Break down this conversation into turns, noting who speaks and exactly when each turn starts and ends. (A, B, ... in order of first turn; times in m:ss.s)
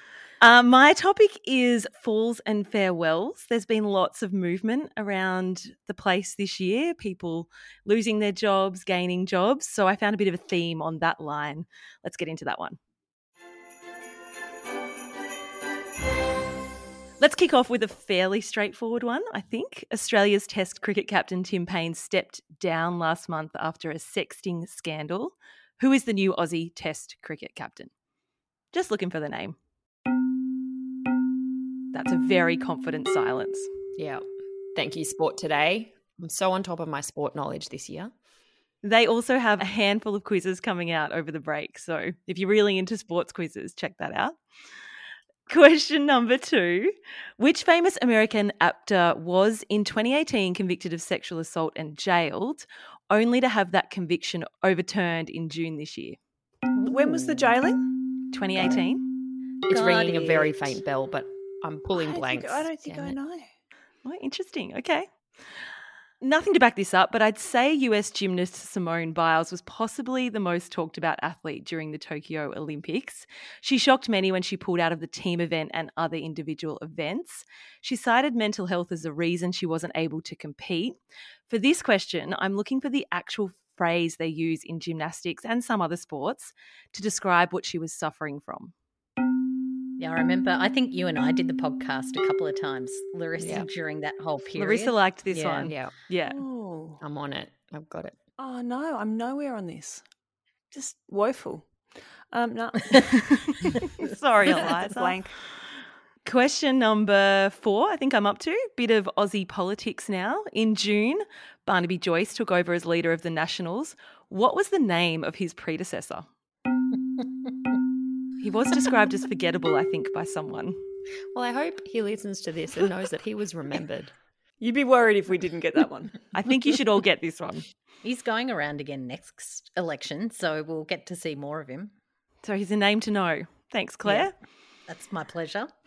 0:00.4-0:12.8 A
0:17.2-0:27.9 A
0:28.7-0:29.6 A
0:31.9-0:33.7 A
0:34.0-0:34.2 B
0:34.7-0:38.1 B
0:38.8-0:44.3 A
0:45.5-0:56.2 A
0:56.8-0:57.3 C
0:56.8-0:57.9 D
0:58.3-0:59.0 A
0:59.7-1:03.2 B
0:59.7-1:00.6 C
1:01.9-1:03.5 D
1:04.0-1:05.1 A
1:06.2-1:28.7 A
1:30.0-1:35.7 C
1:33.4-1:33.7 B
1:34.6-1:36.4 A
1:35.6-1:35.9 B
1:36.2-1:37.0 D
1:37.0-1:38.2 B
1:38.4-1:40.0 D
1:40.7-1:41.7 D
1:42.3-1:43.7 D
1:44.0-1:45.2 A
1:44.6-1:45.3 D
1:46.2-1:56.3 A
1:58.4-2:00.8 A
2:01.3-2:04.1 B
2:04.6-2:06.2 D
2:06.3-2:07.6 A
2:08.0-2:11.9 C
2:12.4-2:14.3 A
2:14.9-2:15.7 C